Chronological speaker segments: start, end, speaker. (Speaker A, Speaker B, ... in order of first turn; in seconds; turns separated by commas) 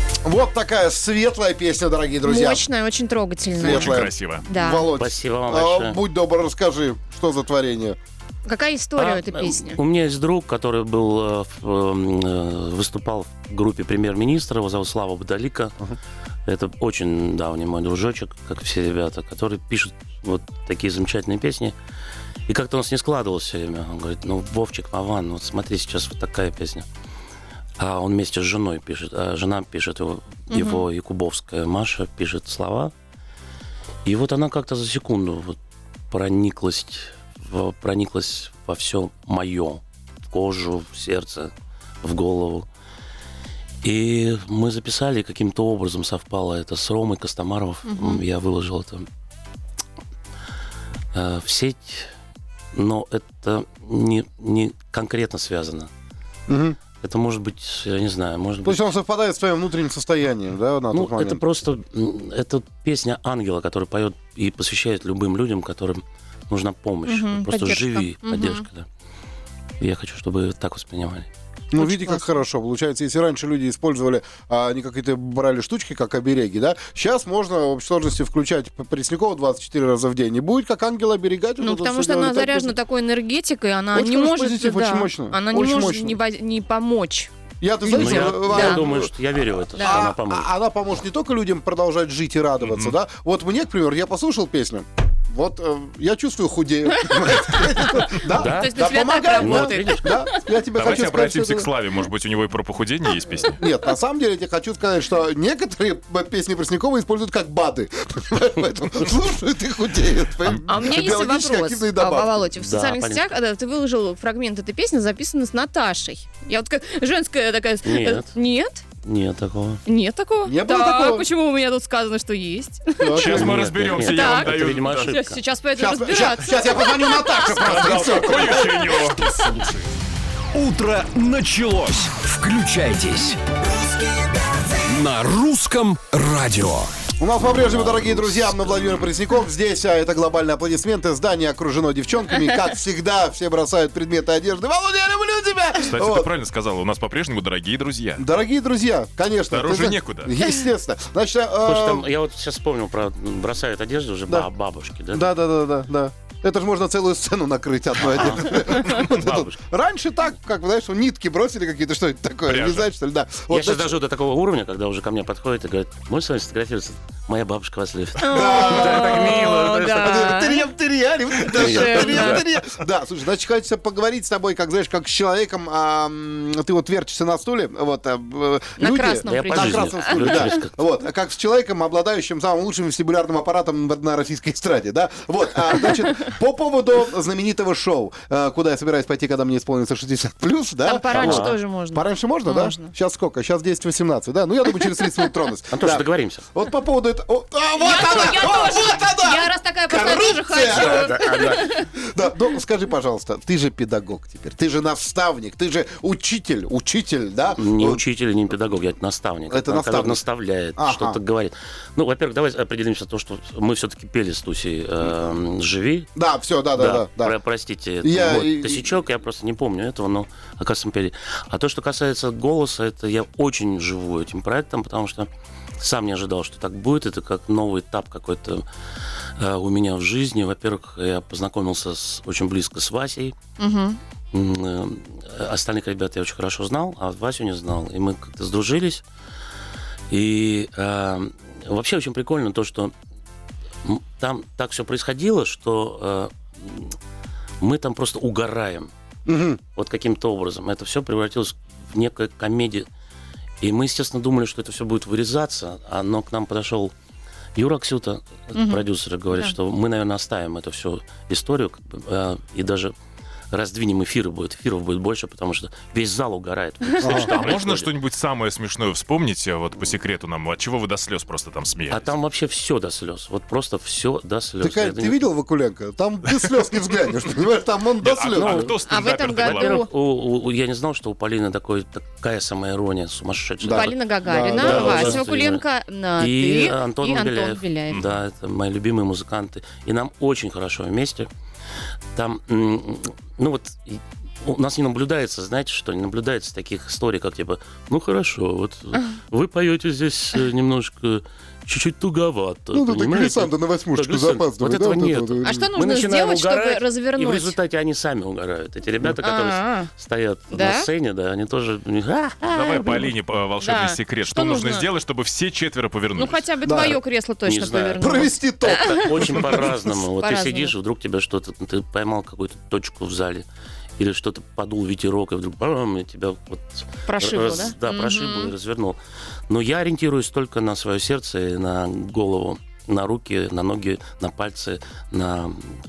Speaker A: 0.2-2.6, Speaker B: 2.2-4.9, Speaker A: 3.6-8.0, Speaker C: 3.6-4.4, Speaker D: 5.0-6.0, Speaker B: 8.4-9.8, Speaker D: 9.0-15.8, Speaker D: 16.4-21.7, Speaker D: 22.5-26.9, Speaker D: 27.8-32.9, Speaker B: 30.5-30.8, Speaker D: 34.0-35.6, Speaker D: 36.1-42.7, Speaker D: 43.8-49.1, Speaker B: 47.9-48.2, Speaker D: 51.1-52.1, Speaker D: 52.7-55.9, Speaker A: 56.5-56.8, Speaker D: 57.0-58.9, Speaker A: 58.6-61.4, Speaker D: 60.9-68.9, Speaker B: 67.0-68.6, Speaker D: 69.8-71.3, Speaker A: 71.7-82.8, Speaker B: 71.8-72.3, Speaker B: 81.6-87.3, Speaker A: 83.9-86.2, Speaker A: 87.6-89.1, Speaker B: 87.8-88.8, Speaker D: 87.9-90.5, Speaker A: 89.7-101.7, Speaker B: 89.8-90.1, Speaker C: 92.6-93.0, Speaker B: 97.9-100.4, Speaker D: 98.3-100.1, Speaker C: 100.7-103.6, Speaker A: 103.5-112.5, Speaker B: 110.6-118.8, Speaker D: 112.6-113.3, Speaker D: 117.8-118.3, Speaker D: 119.0-119.8, Speaker B: 119.8-123.2, Speaker A: 120.4-121.3, Speaker A: 123.0-123.7, Speaker C: 123.1-125.2, Speaker D: 123.2-125.4, Speaker B: 124.0-129.6, Speaker A: 125.7-129.1, Speaker C: 127.5-129.2, Speaker E: 130.5-133.4, Speaker E: 134.8-136.9, Speaker A: 137.2-146.3, Speaker C: 145.8-148.2, Speaker A: 148.2-152.1, Speaker C: 149.5-150.4, Speaker D: 151.6-155.3, Speaker A: 155.1-164.0, Speaker D: 158.1-159.6, Speaker C: 162.5-162.9, Speaker D: 163.5-170.2, Speaker B: 168.2-170.7, Speaker A: 168.3-208.0, Speaker D: 171.5-172.4, Speaker B: 171.5-172.4, Speaker B: 178.8-180.5, Speaker D: 179.3-180.8, Speaker B: 190.8-192.9, Speaker D: 191.1-191.6, Speaker D: 195.7-196.4, Speaker B: 197.8-201.9, Speaker D: 200.6-201.7, Speaker D: 207.6-216.1, Speaker A: 209.5-210.2, Speaker A: 210.8-211.2, Speaker A: 216.1-217.3, Speaker D: 216.7-228.6, Speaker A: 218.0-218.9, Speaker D: 229.3-233.3, Speaker B: 233.6-234.0, Speaker D: 234.3-239.0, Speaker D: 240.1-242.9, Speaker D: 243.8-247.0, Speaker D: 247.6-248.9, Speaker A: 249.2-249.6, Speaker D: 249.7-252.9, Speaker D: 253.6-256.9, Speaker D: 257.6-262.9, Speaker B: 258.5-259.5, Speaker D: 263.5-267.9, Speaker A: 267.0-267.3, Speaker C: 267.0-272.1, Speaker D: 271.9-275.2, Speaker A: 274.6-278.7, Speaker C: 278.0-279.8, Speaker D: 278.4-278.7, Speaker B: 278.9-279.9, Speaker D: 279.4-285.6, Speaker A: 283.6-285.2, Speaker B: 283.7-288.0, Speaker D: 286.2-291.3, Speaker C: 287.9-288.2, Speaker D: 292.1-313.1, Speaker A: 302.7-305.7, Speaker B: 305.4-307.6, Speaker B: 309.2-309.9, Speaker B: 310.5-310.9, Speaker C: 312.5-316.5, Speaker B: 313.6-314.9, Speaker B: 316.1-320.7, Speaker A: 316.6-317.0, Speaker D: 317.4-323.4, Speaker A: 318.0-319.7, Speaker D: 324.0-335.8, Speaker B: 327.1-328.5